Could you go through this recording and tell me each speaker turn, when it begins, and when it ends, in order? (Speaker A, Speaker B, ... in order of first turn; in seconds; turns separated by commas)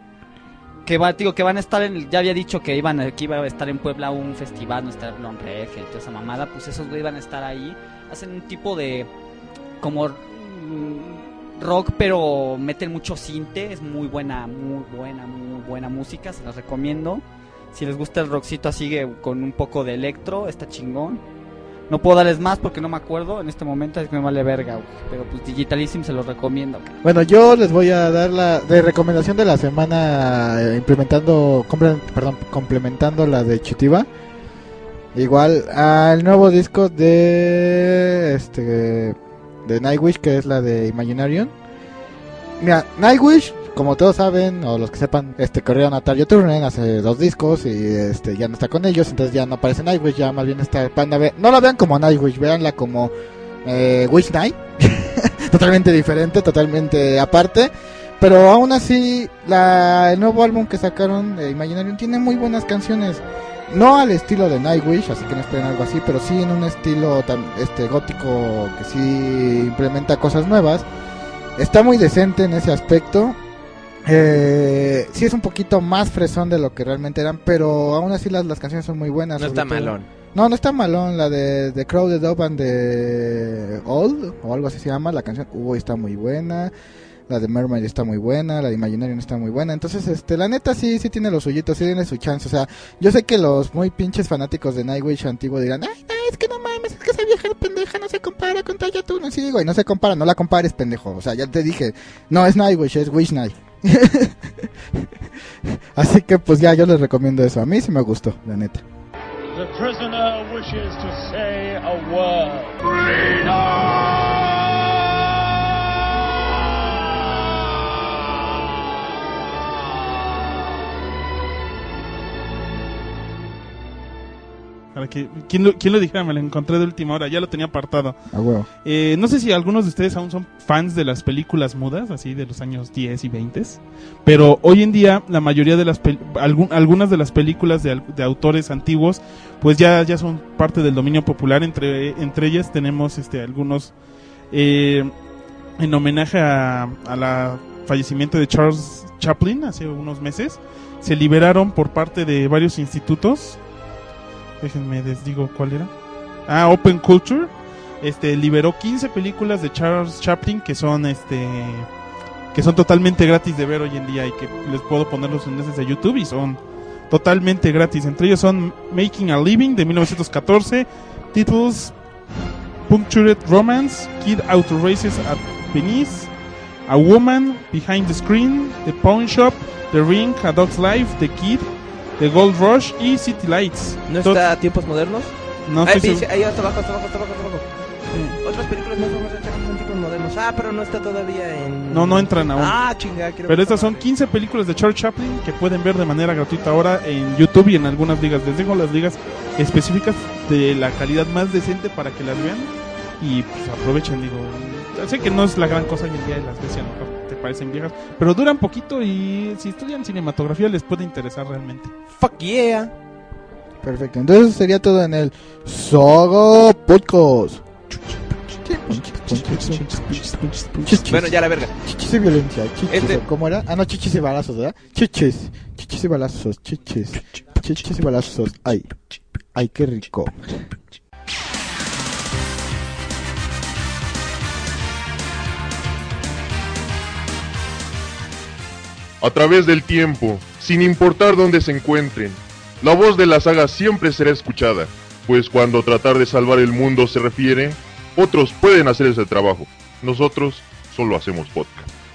Speaker A: 0.8-9.1, Speaker A: 9.8-21.2, Speaker A: 21.9-26.9, Speaker B: 27.0-34.1, Speaker B: 35.1-41.5, Speaker B: 42.6-53.1, Speaker B: 53.6-70.9, Speaker B: 71.6-73.4, Speaker B: 74.0-86.7, Speaker C: 79.4-80.0, Speaker B: 87.3-105.0, Speaker B: 106.0-108.8, Speaker D: 109.5-114.0, Speaker E: 124.9-128.2, Speaker B: 128.3-128.7, Speaker E: 128.8-143.9, Speaker E: 144.5-145.1, Speaker E: 145.8-153.6, Speaker E: 154.6-155.9, Speaker E: 156.5-157.5, Speaker E: 158.0-161.9, Speaker E: 162.5-171.9, Speaker E: 172.9-176.3, Speaker E: 176.9-181.7, Speaker E: 182.2-184.4, Speaker C: 184.1-187.7, Speaker E: 185.7-186.2, Speaker E: 188.1-188.4, Speaker C: 188.4-194.1, Speaker E: 191.9-192.8, Speaker E: 193.4-211.9, Speaker C: 212.2-212.9, Speaker B: 213.8-217.6, Speaker B: 218.6-228.9, Speaker C: 221.0-221.7, Speaker C: 222.9-223.2, Speaker B: 229.5-230.6, Speaker F: 239.2-251.9